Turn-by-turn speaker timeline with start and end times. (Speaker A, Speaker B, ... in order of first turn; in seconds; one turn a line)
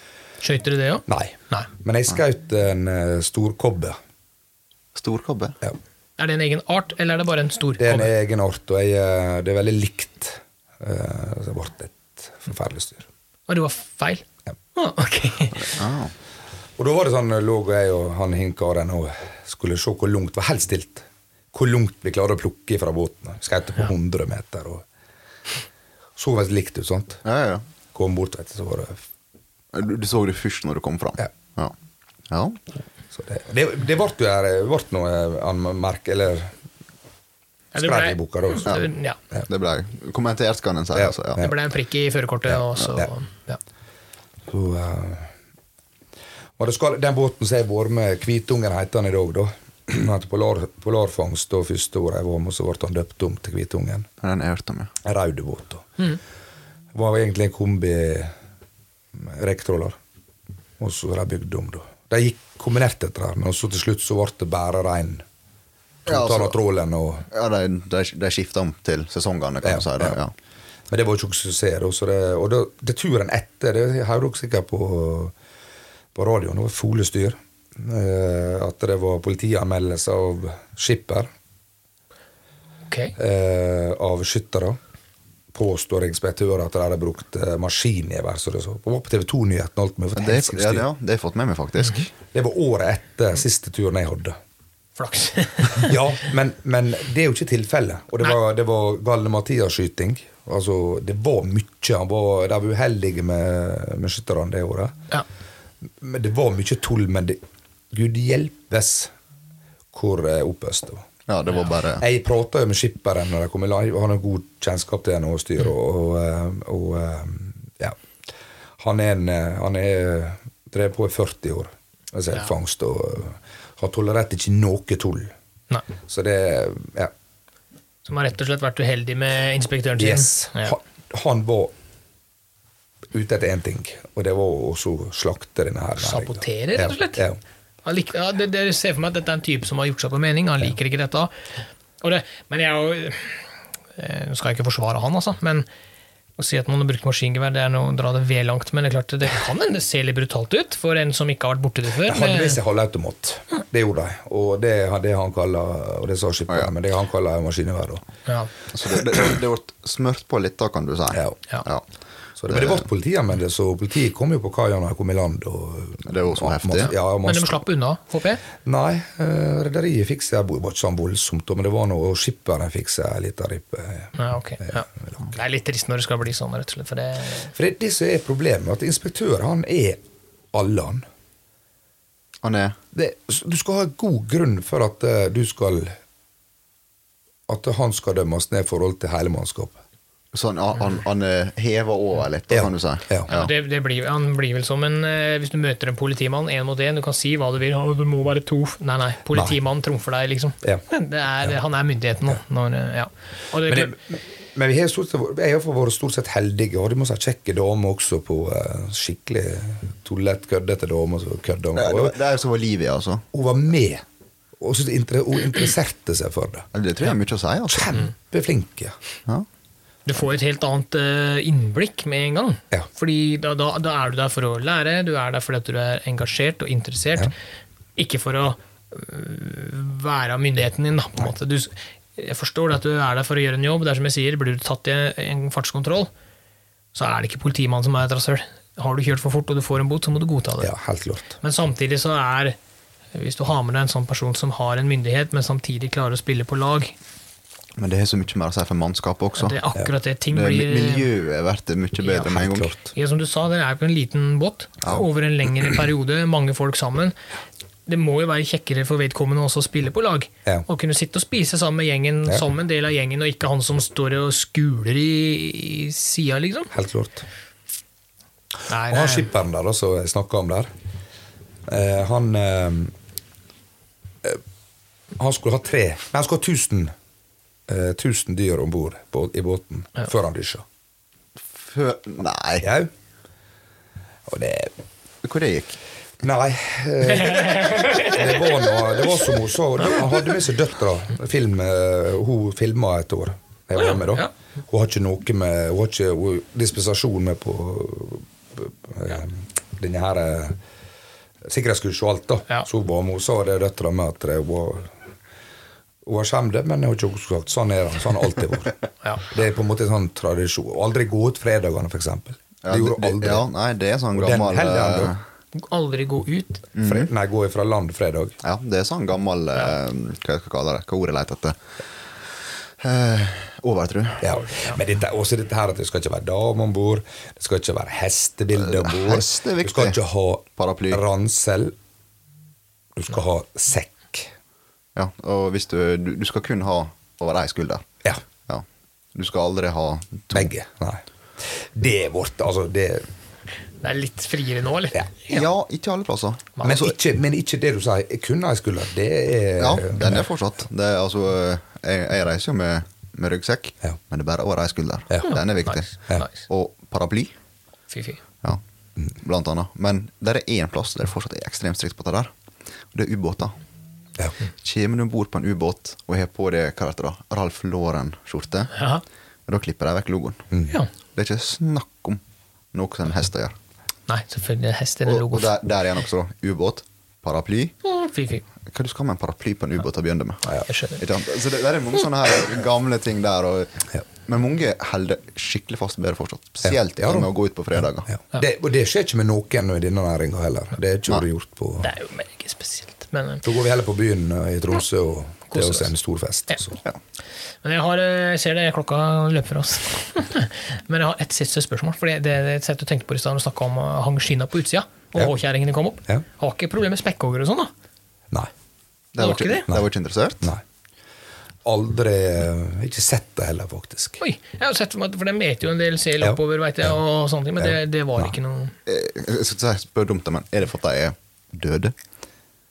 Speaker A: 0.4-1.7
Speaker B: 1.1-4.0
Speaker C: 4.9-5.6
Speaker A: 6.2-8.1
Speaker B: 7.8-13.1
Speaker A: 13.5-15.8
Speaker C: 15.6-16.1
Speaker B: 16.8-24.8
Speaker B: 26.2-27.2
Speaker C: 27.2-27.6
Speaker B: 27.9-29.0
Speaker C: 29.7-31.7
Speaker C: 32.3-32.6
Speaker B: 33.1-36.5
Speaker A: 37.7-39.2
Speaker B: 37.8-39.4
Speaker C: 39.5-41.5
Speaker B: 40.9-41.5
Speaker A: 41.4-43.6
Speaker B: 42.8-43.1
Speaker B: 44.5-45.3
Speaker B: 46.6-54.1
Speaker C: 54.2-54.9
Speaker B: 55.0-56.1
Speaker B: 56.9-58.3
Speaker B: 59.1-60.0
Speaker B: 60.8-65.2
Speaker C: 66.1-66.6
Speaker B: 66.1-67.3
Speaker C: 67.3-70.3
Speaker B: 69.6-70.2
Speaker B: 70.9-75.3
Speaker B: 76.1-81.3
Speaker A: 82.9-83.1
Speaker B: 83.2-84.8
Speaker B: 85.5-90.8
Speaker C: 90.2-92.1
Speaker B: 92.3-94.3
Speaker A: 95.0-96.0
Speaker B: 95.8-105.0
Speaker B: 106.0-107.4
Speaker B: 107.9-109.1
Speaker B: 109.9-111.0
Speaker C: 111.3-112.0
Speaker B: 112.0-118.0
Speaker B: 118.8-125.3
Speaker B: 126.0-127.1
Speaker A: 128.0-130.8
Speaker B: 130.0-131.7
Speaker B: 133.1-137.4
Speaker A: 136.0-137.2
Speaker A: 137.8-143.4
Speaker A: 143.9-145.7
Speaker A: 146.4-152.6
Speaker B: 152.1-158.0
Speaker A: 158.2-158.5
Speaker C: 158.7-161.8
Speaker B: 161.1-161.4
Speaker B: 162.4-167.6
Speaker C: 162.5-162.8
Speaker C: 166.1-166.9
Speaker A: 166.9-168.4
Speaker B: 168.6-174.1
Speaker A: 174.1-177.5
Speaker B: 174.7-175.2
Speaker B: 177.5-180.0
Speaker B: 180.5-181.0
Speaker C: 182.4-182.8
Speaker B: 182.9-185.9
Speaker B: 187.5-189.8
Speaker C: 190.3-193.5
Speaker B: 192.5-193.3
Speaker A: 193.3-203.9
Speaker B: 203.7-212.2
Speaker C: 211.7-213.2
Speaker B: 213.3-214.0
Speaker B: 214.6-216.7
Speaker C: 216.7-218.0
Speaker B: 217.7-218.9
Speaker A: 220.1-227.3
Speaker A: 228.0-236.1
Speaker A: 236.9-240.7
Speaker B: 240.6-241.3
Speaker A: 241.4-242.6
Speaker A: 243.1-246.9
Speaker C: 247.8-249.6
Speaker A: 249.4-251.1
Speaker C: 250.3-252.7
Speaker B: 252.1-252.9
Speaker A: 252.9-257.1
Speaker A: 257.9-266.7
Speaker B: 266.7-267.2
Speaker A: 268.7-269.3
Speaker B: 268.9-270.7
Speaker B: 271.7-272.9
Speaker B: 275.2-276.9
Speaker B: 277.7-280.6
Speaker C: 281.6-282.7
Speaker B: 282.6-282.9
Speaker B: 284.3-284.7
Speaker C: 285.2-285.8
Speaker B: 286.2-300.6
Speaker A: 287.2-288.2
Speaker A: 293.8-294.3
Speaker B: 301.4-304.9
Speaker B: 306.0-313.4
Speaker C: 312.6-315.2
Speaker B: 314.1-315.1
Speaker A: 315.5-316.7
Speaker C: 316.7-317.1
Speaker B: 316.8-318.4
Speaker C: 318.4-321.6
Speaker C: 322.8-324.3
Speaker B: 324.2-331.8
Speaker A: 324.4-324.8
Speaker C: 328.5-330.0
Speaker C: 330.6-331.0
Speaker B: 332.9-334.3
Speaker C: 334.9-337.9
Speaker C: 338.4-340.5
Speaker B: 340.3-343.0
Speaker A: 343.8-345.5
Speaker C: 345.3-346.9
Speaker B: 346.6-350.3
Speaker C: 349.6-357.3
Speaker A: 355.2-356.4
Speaker A: 357.9-358.2
Speaker C: 359.1-362.3
Speaker C: 362.9-363.6
Speaker C: 364.6-368.8
Speaker A: 368.7-369.0
Speaker C: 369.5-370.5
Speaker C: 371.1-372.2
Speaker C: 372.7-373.5
Speaker A: 374.1-375.6
Speaker C: 375.1-377.7
Speaker A: 377.8-378.4
Speaker C: 378.7-388.1
Speaker A: 380.5-381.0
Speaker B: 386.6-387.3
Speaker B: 388.1-391.9
Speaker A: 391.8-393.4
Speaker B: 393.4-396.8
Speaker A: 395.5-395.9
Speaker A: 397.6-407.7
Speaker C: 409.1-410.5
Speaker A: 409.2-409.7
Speaker B: 411.6-414.2
Speaker A: 414.2-418.7
Speaker B: 416.2-416.9
Speaker B: 417.6-418.3
Speaker C: 418.9-421.9